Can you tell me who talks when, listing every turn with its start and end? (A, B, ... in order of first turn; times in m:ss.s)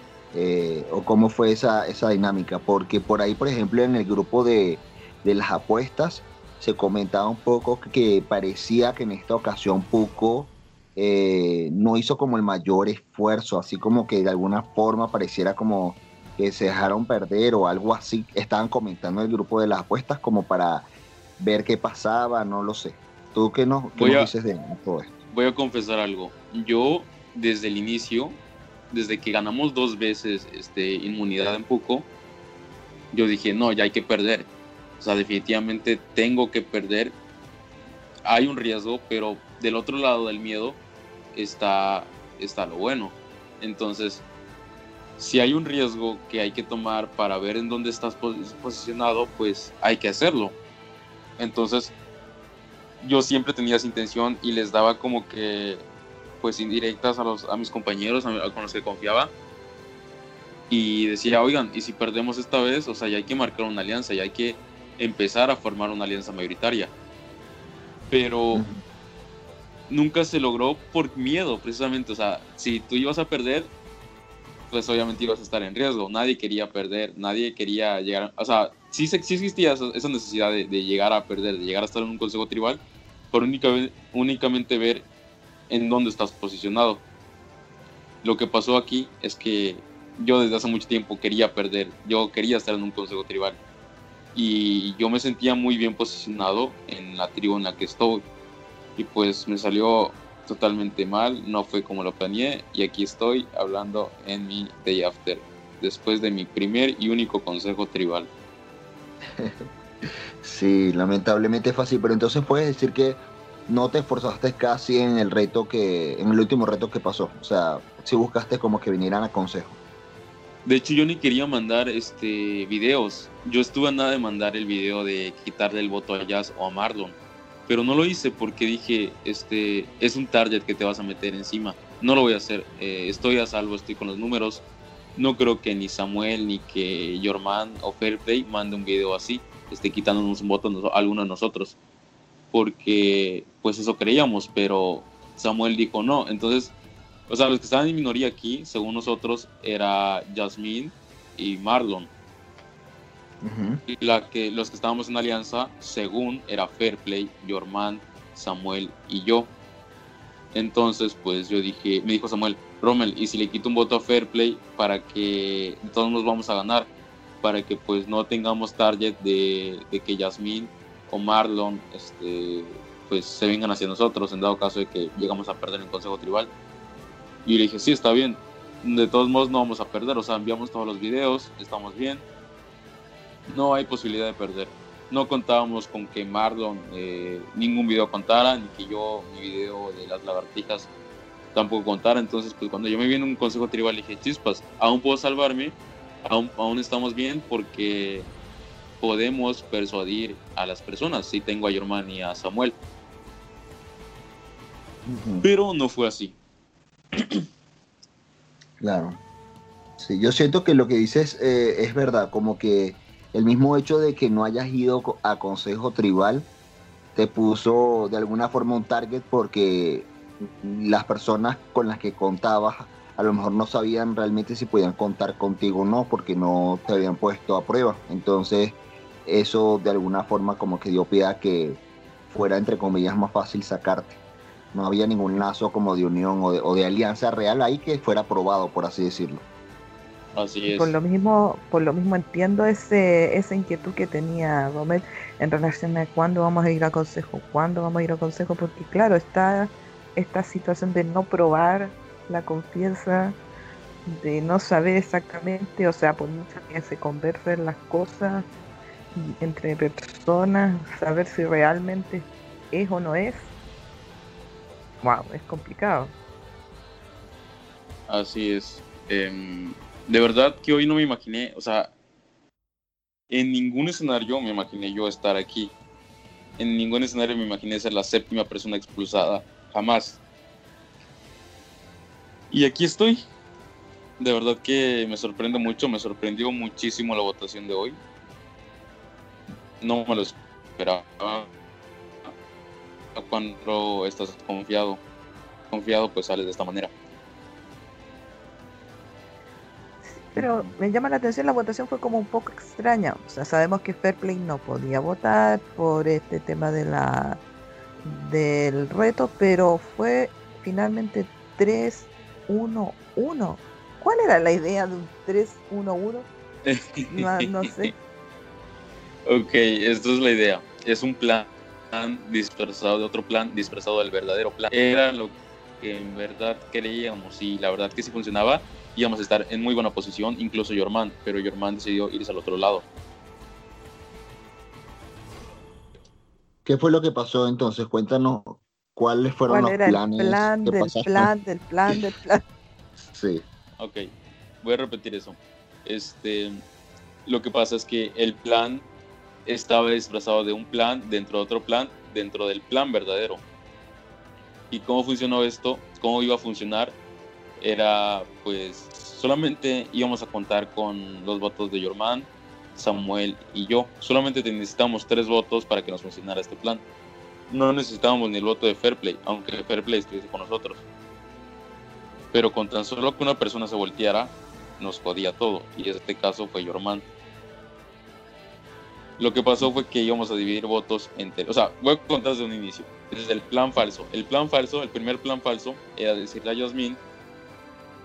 0:00.3-0:20.9 A
0:21.4-0:25.1 A
0:24.0-0:24.3 B
0:25.3-0:28.4 B
0:28.9-0:32.1 B
0:33.1-0:34.5 B
0:35.0-0:37.1 B
0:38.2-0:40.8 B
0:41.3-0:44.2 B
0:45.2-0:50.6 B
0:51.4-0:51.9 B
0:53.0-0:55.8 B
0:56.4-0:59.3 B
1:00.7-1:06.9 B
1:08.1-1:08.6 B
1:08.5-1:08.8 A
1:09.9-1:13.7 B
1:14.7-1:25.0 B
1:25.7-1:27.0 B
1:28.2-1:33.6 B
1:34.4-1:38.2 B
1:39.0-1:48.3 B
1:49.4-1:49.7 A
1:50.4-1:59.8 A
2:00.6-2:07.2 B
2:07.7-2:14.6 B
2:15.2-2:21.8 B
2:22.5-2:26.7 B
2:27.3-2:32.1 B
2:33.4-2:33.8 A
2:33.9-2:39.5 B
2:40.5-2:46.9 B
2:47.4-2:56.5 B
2:57.4-3:02.2 B
3:03.5-3:10.9 B
3:11.5-3:18.3 B
3:19.0-3:22.8 B
3:25.0-3:25.5 A
3:25.4-3:26.4 B
3:27.2-3:27.4 B
3:28.8-3:29.2 A
3:30.0-3:36.5 A
3:37.1-3:54.2 A
3:54.7-3:59.4 A
4:00.4-4:01.0 B
4:00.7-4:13.4 C
4:14.0-4:18.5 C
4:19.1-4:23.5 C
4:25.0-4:26.1 C
4:28.1-4:31.9 B
4:33.3-4:35.7 B
4:36.6-4:40.2 B
4:42.5-4:43.2 B
4:44.2-4:48.0 B
4:49.8-4:51.5 B
4:53.1-4:55.0 B
4:55.7-4:56.9 B
5:00.1-5:07.4 C
5:00.4-5:00.7 A
5:08.0-5:16.3 C
5:16.6-5:17.9 B
5:17.1-5:17.9 C
5:19.2-5:32.8 B
5:36.6-5:41.3 A
5:39.5-5:42.4 C
5:43.1-5:43.4 A
5:43.8-5:44.1 B
5:44.6-5:46.6 B
5:47.2-5:48.9 B
5:49.5-5:53.4 B
5:54.7-5:57.0 B
5:57.6-6:06.8 B
6:07.5-6:10.8 B
6:12.3-6:17.0 B
6:19.2-6:27.0 B